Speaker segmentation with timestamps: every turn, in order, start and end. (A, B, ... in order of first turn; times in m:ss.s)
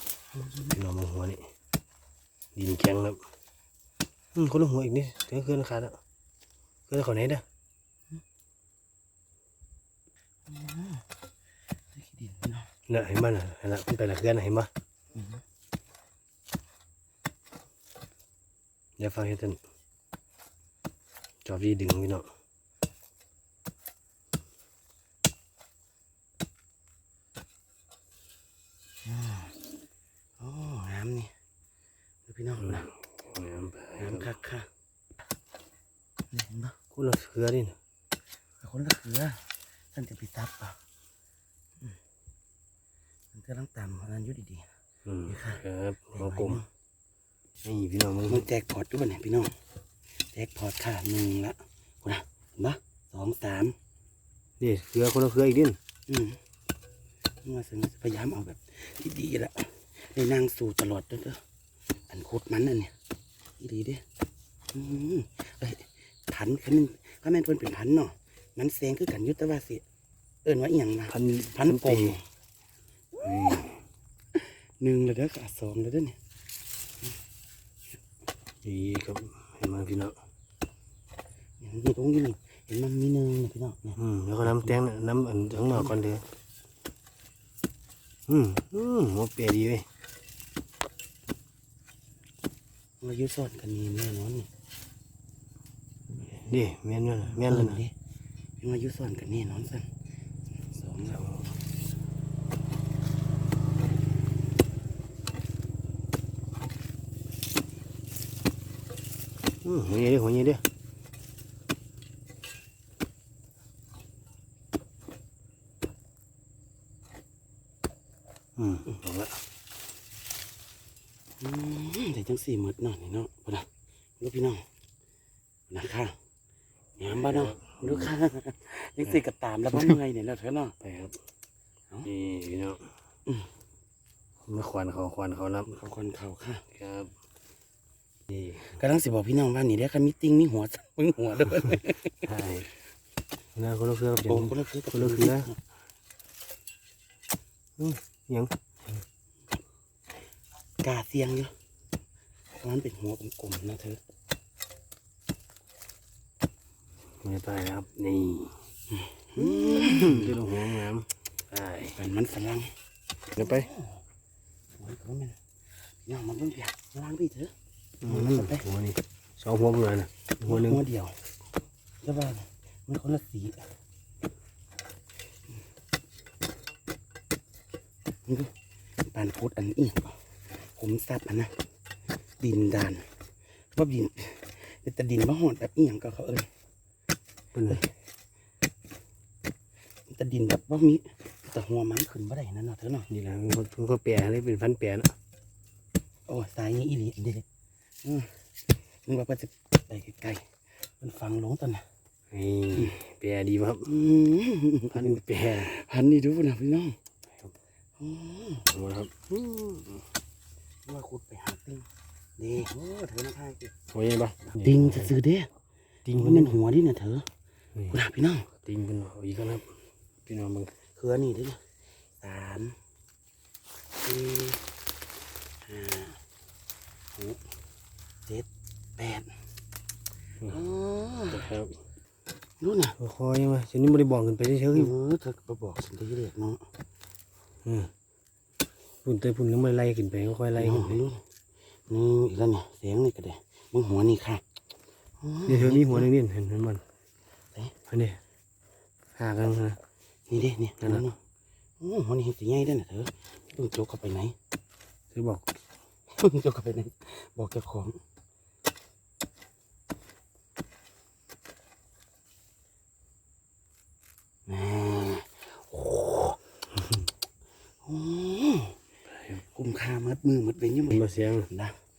0:00.3-0:00.8 A
0:00.7-0:01.4 B
0:02.6-0:03.2 B
0:04.4-0:06.0 B
0:06.9-0:07.4 B
0:10.5-0:11.0 A
0:11.9-0:12.7 A
0:12.9-0:14.7 B
0:15.1-0:15.4 A
0:19.0-0:19.6 B
0:21.4-0:22.3 B
0:29.0-0:29.6 A
0:30.4-0:31.3 A
0:32.3-0:32.9 A
0:32.6-0:34.3 B
0:34.0-0:34.7 A
0:36.3-0:36.8 A
0:36.9-0:37.8 B
0:38.6-0:39.4 A
0:39.9-0:40.8 A
0:43.3-0:44.7 A
0:45.0-0:46.6 B
0:45.3-0:46.7 A
0:47.6-0:48.4 B
0:48.3-0:49.5 A
0:50.3-0:53.8 A
0:54.6-0:55.8 B
0:56.1-0:56.4 A
0:57.4-1:01.4 A
1:02.1-1:02.9 A
1:03.6-1:04.0 A
1:04.7-1:09.8 A
1:10.4-1:12.2 A
1:11.1-1:12.2 B
1:13.2-1:13.7 A
1:13.2-1:13.7 B
1:14.4-1:16.2 A
1:18.6-1:20.2 B
1:21.6-1:24.8 A
1:24.0-1:26.2 B
1:28.3-1:29.9 B
1:33.0-1:34.5 A
1:36.3-1:37.8 B
1:37.3-1:37.9 A
1:38.6-1:39.9 A
1:40.7-1:41.5 A
1:49.6-1:50.6 B
1:58.6-1:59.4 B
2:01.4-2:03.7 A
2:04.2-2:04.6 A
2:05.7-2:06.2 A
2:07.0-2:10.7 A
2:07.1-2:08.1 B
2:09.7-2:10.0 B
2:10.8-2:11.2 B
2:12.0-2:12.9 B
2:14.5-2:15.7 B
2:15.7-2:16.6 A
2:16.7-2:17.1 B
2:18.3-2:18.7 B
2:18.6-2:22.3 A
2:22.2-2:22.7 B
2:23.6-2:25.5 B
2:24.2-2:25.6 A
2:27.8-2:28.5 B
2:30.8-2:31.5 A
2:32.6-2:34.0 A
2:37.2-2:38.6 B
2:38.9-2:40.4 A
2:39.4-2:42.0 B
2:42.0-2:42.7 A
2:43.4-2:43.7 B
2:43.4-2:44.0 A
2:44.8-2:47.5 A
2:48.0-2:50.8 B
2:48.1-2:48.7 A
2:50.4-2:51.1 A
2:52.0-2:53.7 A
2:59.1-3:01.5 A
3:02.4-3:03.1 A
3:03.7-3:06.5 A
3:07.5-3:07.8 B
3:10.1-3:13.1 A
3:13.1-3:15.2 B
3:16.3-3:17.4 A
3:18.0-3:18.3 A
3:19.1-3:20.4 A
3:21.0-3:21.8 A
3:22.3-3:23.9 B
3:23.8-3:27.0 A
3:24.9-3:25.7 B
3:28.0-3:28.7 A
3:28.7-3:30.0 B
3:30.9-3:31.9 A
3:32.4-3:33.7 A
3:33.9-3:35.1 B
3:34.6-3:35.5 A
3:36.0-3:36.6 B
3:36.2-3:37.3 A
3:37.9-3:38.5 A
3:38.6-3:39.7 B
3:40.3-3:40.7 B
3:41.0-3:41.6 A
3:42.2-3:42.8 A
3:44.0-3:44.6 A
3:45.6-3:46.2 A
3:49.0-3:49.3 A
3:50.5-3:51.5 A
3:51.3-3:51.8 B
3:52.6-3:53.0 A
3:53.0-3:54.9 B
3:54.7-3:56.6 A
3:57.6-3:57.9 B
3:59.0-4:01.0 B
4:00.6-4:01.2 A
4:01.9-4:04.4 A
4:05.2-4:06.1 A
4:05.5-4:06.8 B
4:07.9-4:08.2 B
4:09.2-4:09.8 B
4:10.3-4:11.2 A
4:11.8-4:14.4 A
4:15.1-4:15.5 B
4:16.2-4:18.0 A
4:24.5-4:26.4 A
4:27.8-4:28.8 A
4:29.1-4:29.4 B
4:29.4-4:31.8 A
4:30.9-4:31.5 B